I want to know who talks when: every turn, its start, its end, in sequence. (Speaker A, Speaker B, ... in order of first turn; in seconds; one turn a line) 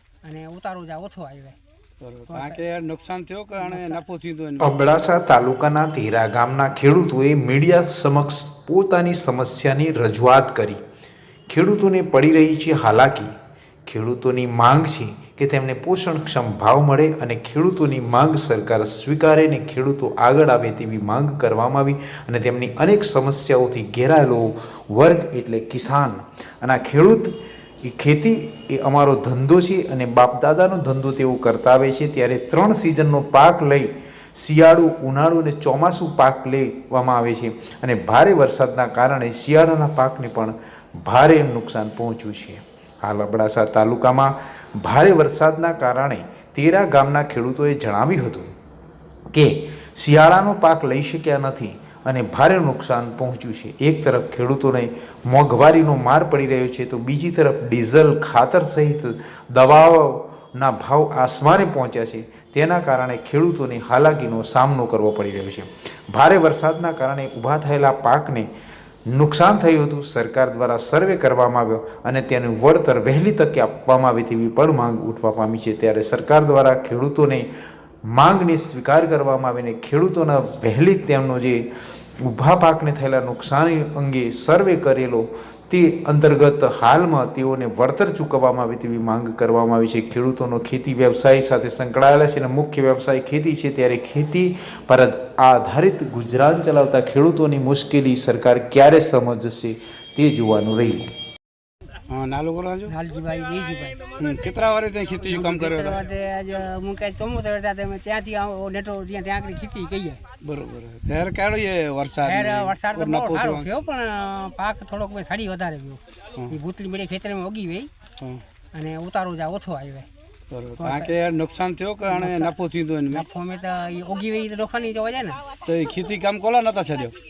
Speaker A: 0.2-1.6
Speaker B: 2.0-4.8
Speaker A: 2.3-2.6
Speaker A: 3.6-4.0
Speaker C: 4.6-10.8
Speaker C: 11.5-13.3
Speaker C: 13.9-48.5
Speaker C: 49.3-68.5
Speaker C: 69.1-77.5
Speaker C: 78.1-81.7
Speaker C: 82.2-101.1
Speaker B: 102.1-102.9
Speaker A: 102.9-104.0
Speaker B: 104.2-106.0
Speaker A: 105.2-110.2
Speaker B: 110.4-113.7
Speaker A: 112.2-117.9
Speaker A: 118.7-120.1
Speaker B: 120.5-123.2
Speaker A: 120.8-121.1
Speaker A: 122.0-122.5
Speaker A: 123.1-125.5
Speaker B: 125.6-127.2